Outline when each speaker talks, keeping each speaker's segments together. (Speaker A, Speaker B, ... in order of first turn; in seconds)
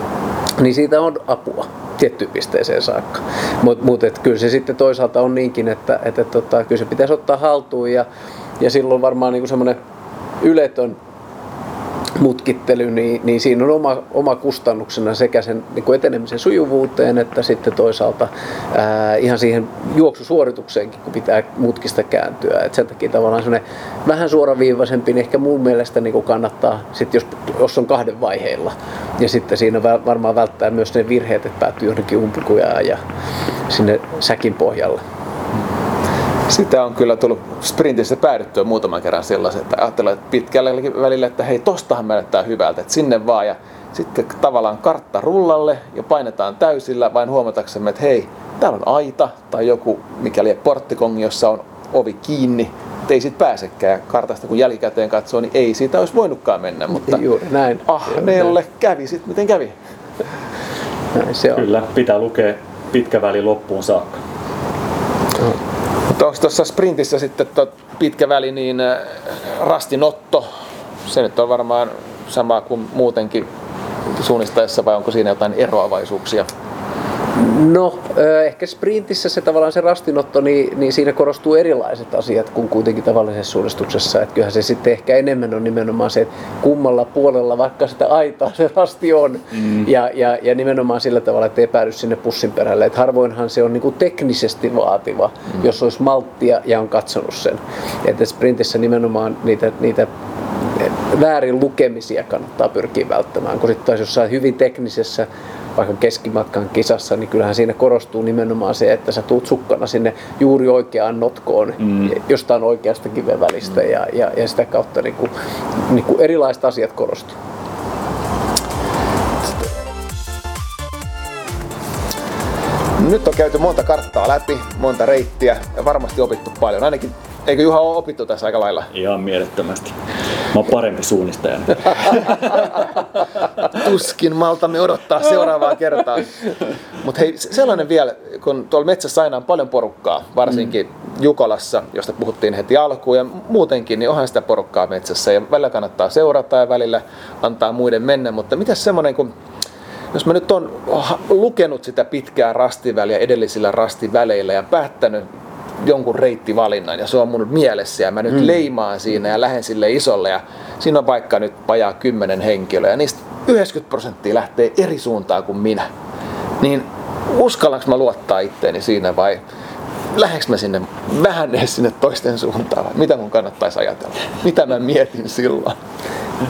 Speaker A: 0.6-8.1, 8.6-9.8, 10.4-11.0, 12.2-33.0, 33.7-35.0, 57.0-58.5, 61.1-61.6, 77.4-100.1, 100.6-115.3, 115.8-117.4
Speaker B: 36.5-57.2, 57.8-59.8, 66.1-70.5, 71.0-73.5, 74.0-76.5, 123.0-128.9, 133.7-136.5, 137.0-149.3, 150.1-155.3, 155.8-165.9, 166.6-169.4, 170.1-175.8
Speaker C: 61.5-64.2, 128.9-130.0, 130.5-132.7